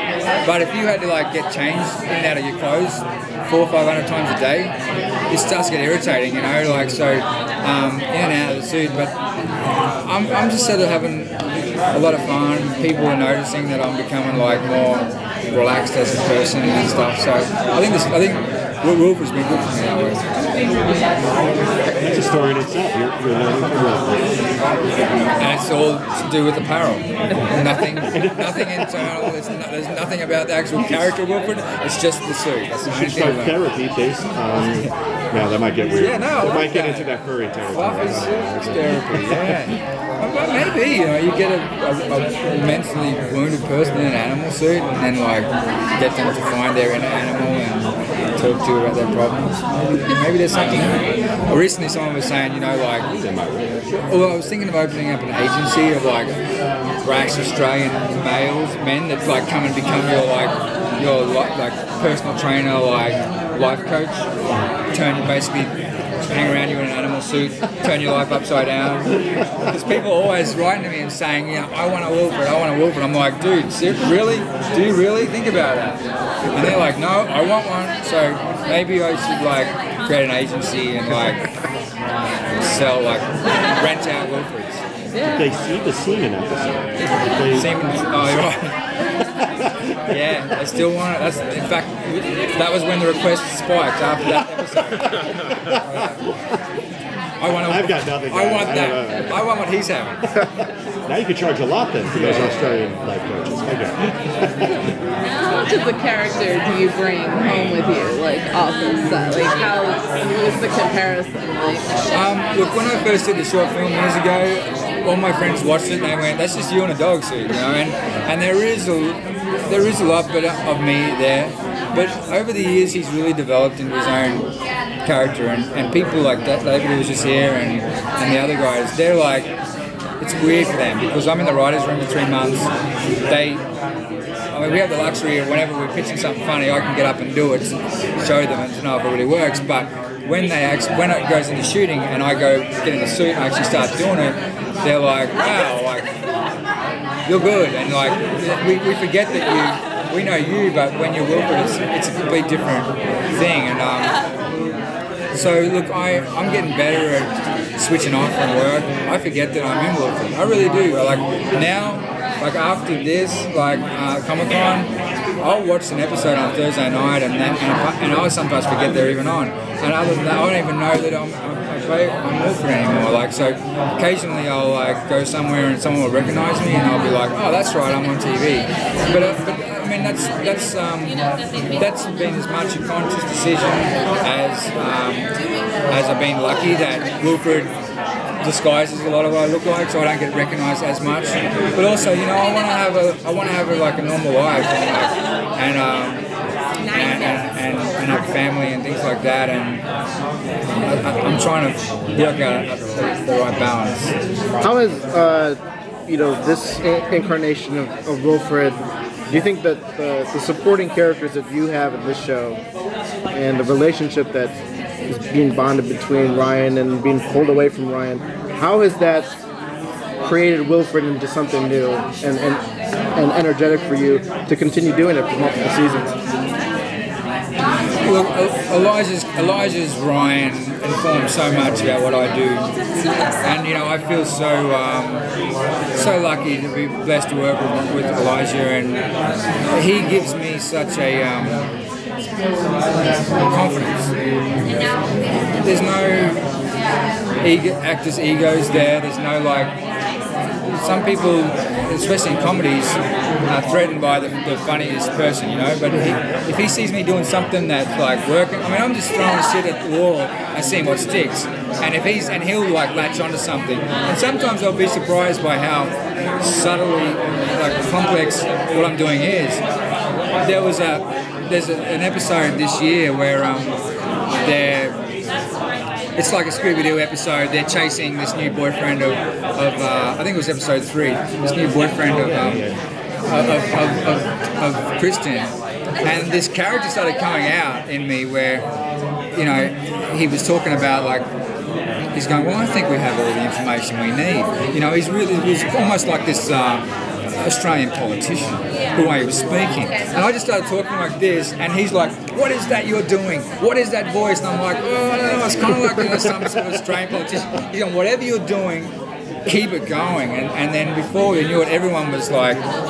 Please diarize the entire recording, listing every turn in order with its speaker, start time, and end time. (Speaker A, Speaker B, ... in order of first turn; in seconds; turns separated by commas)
Speaker A: 0.4-4.8, Speaker A: 5.3-9.1, Speaker A: 10.0-11.3, Speaker A: 11.9-20.2, Speaker B: 22.0-24.2, Speaker A: 25.4-33.6, Speaker B: 28.0-29.3, Speaker B: 32.8-39.7, Speaker A: 35.9-37.1, Speaker A: 37.7-53.1, Speaker B: 53.1-53.8, Speaker A: 53.9-56.3, Speaker A: 57.0-64.3, Speaker A: 64.9-65.7, Speaker A: 66.2-76.0, Speaker A: 76.5-81.5, Speaker A: 82.6-84.8, Speaker C: 85.1-85.5, Speaker B: 85.2-87.7, Speaker A: 87.5-88.8, Speaker B: 89.2-90.0, Speaker A: 90.1-96.3, Speaker B: 94.9-96.5, Speaker A: 97.4-100.4, Speaker B: 97.7-99.4, Speaker B: 100.3-105.0, Speaker A: 102.2-102.7, Speaker C: 105.4-111.9, Speaker A: 112.1-124.5, Speaker A: 125.0-129.5, Speaker A: 130.2-132.7, Speaker A: 133.3-133.6, Speaker A: 134.5-146.1, Speaker A: 147.2-154.2, Speaker A: 155.3-181.2, Speaker A: 181.8-185.3, Speaker A: 185.9-187.7, Speaker A: 188.4-196.2, Speaker A: 196.8-199.8, Speaker A: 200.7-204.1, Speaker D: 204.6-208.8, Speaker D: 209.3-212.6, Speaker D: 213.3-214.5, Speaker D: 215.1-219.3, Speaker D: 220.2-222.6, Speaker D: 223.1-226.1, Speaker A: 228.0-232.7, Speaker A: 233.4-235.2, Speaker A: 235.9-239.0, Speaker A: 239.7-241.7, Speaker A: 243.4-244.1, Speaker A: 245.6-246.4, Speaker A: 247.4-249.7, Speaker A: 250.8-269.6, Speaker A: 270.4-273.7, Speaker A: 274.4-274.9, Speaker A: 276.2-282.7, Speaker B: 282.3-282.7, Speaker A: 283.2-288.6, Speaker A: 289.3-291.2, Speaker A: 292.1-296.8, Speaker A: 297.4-308.9, Speaker A: 309.4-312.6